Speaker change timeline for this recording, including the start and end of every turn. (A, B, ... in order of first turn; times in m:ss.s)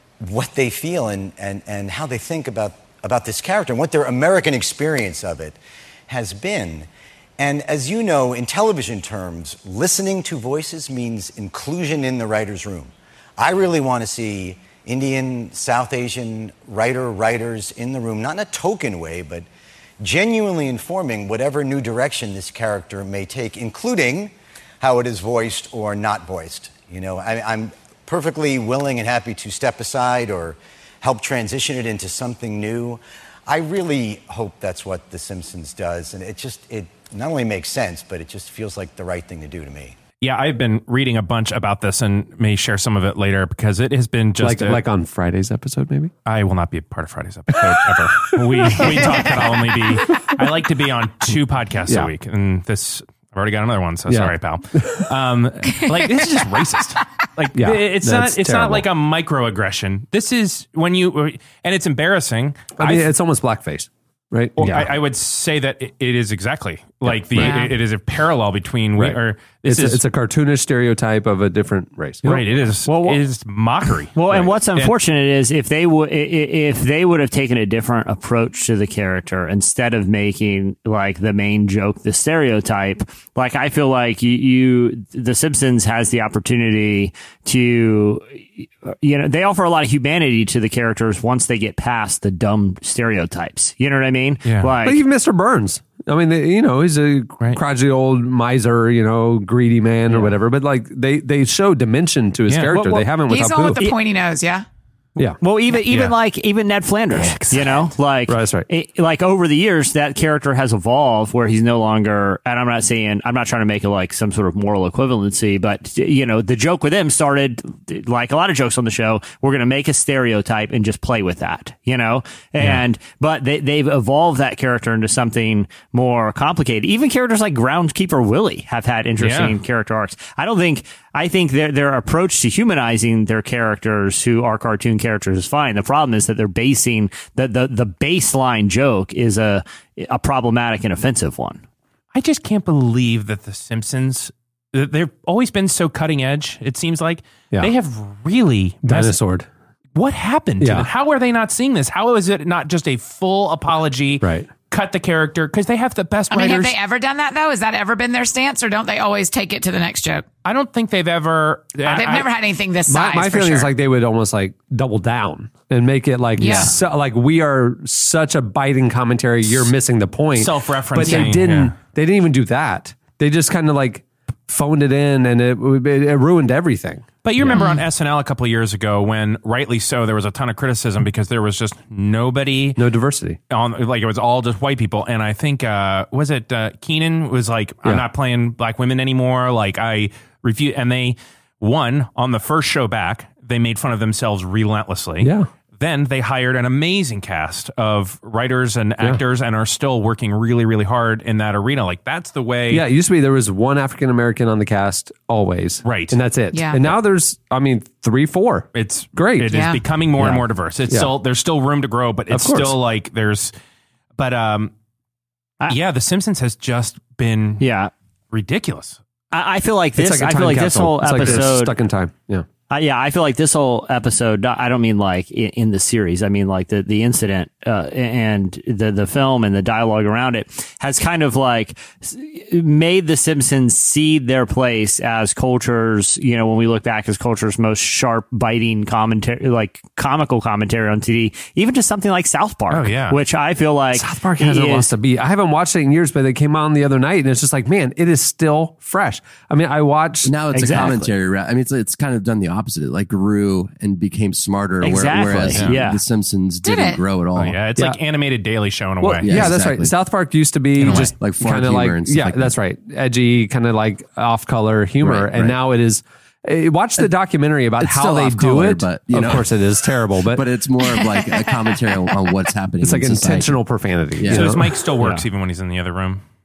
0:00.2-0:06.9 A
0:07.4-0:19.5 A
0:20.0-0:39.9 A
0:40.2-0:44.8 B
0:44.4-0:46.1 C
0:46.2-1:03.1 B
0:47.6-0:49.4 C
0:54.1-0:55.0 C
0:57.5-0:58.8 C
1:02.8-1:04.9 C
1:04.6-1:10.0 B
1:07.0-1:07.6 C
1:07.4-1:07.7 D
1:09.0-1:12.4 C
1:12.2-1:14.9 B
1:12.9-1:13.2 E
1:14.1-1:35.0 E
1:34.8-1:43.8 C
1:42.5-1:42.7 B
1:42.7-1:43.0 E
1:43.2-1:44.6 D
1:45.4-2:21.6 E
1:45.8-1:46.1 B
1:48.3-1:48.7 C
2:09.2-2:09.6 B
2:22.1-2:29.2 B
2:28.8-2:29.5 C
2:29.9-2:36.7 B
2:30.6-2:30.9 C
2:34.2-2:34.5 C
2:36.3-2:40.2 D
2:40.4-2:42.3 B
2:41.9-2:43.7 D
2:42.9-2:57.7 C
2:46.4-2:46.7 D
2:50.4-2:51.7 B
2:51.0-2:51.3 D
2:57.2-3:02.8 B
2:57.5-2:57.8 D
3:02.8-3:03.4 C
3:03.5-3:22.8 B
3:15.2-3:15.5 C
3:22.7-3:29.6 C
3:25.8-3:26.2 B
3:26.5-3:26.9 D
3:28.7-3:33.5 B
3:29.5-3:29.8 D
3:30.2-3:31.1 C
3:32.3-3:32.8 C
3:34.2-3:34.7 B
3:35.7-3:37.6 B
3:37.6-3:37.9 E
3:38.3-3:39.0 B
3:39.3-3:41.8 E
3:40.0-3:42.4 C
3:42.7-4:04.9 E
4:02.7-4:03.2 B
4:03.9-4:11.1 C
4:10.2-4:17.6 F
4:10.5-4:11.0 E
4:14.8-4:16.0 E
4:16.6-4:17.0 D
4:17.4-4:19.5 B
4:19.0-4:30.4 C
4:19.2-4:19.9 F
4:20.8-4:21.1 B
4:20.8-4:22.5 F
4:25.0-4:25.5 F
4:27.8-4:29.5 F
4:30.3-4:33.6 F
4:32.8-4:35.2 C
4:34.2-4:34.5 F
4:34.3-4:36.2 B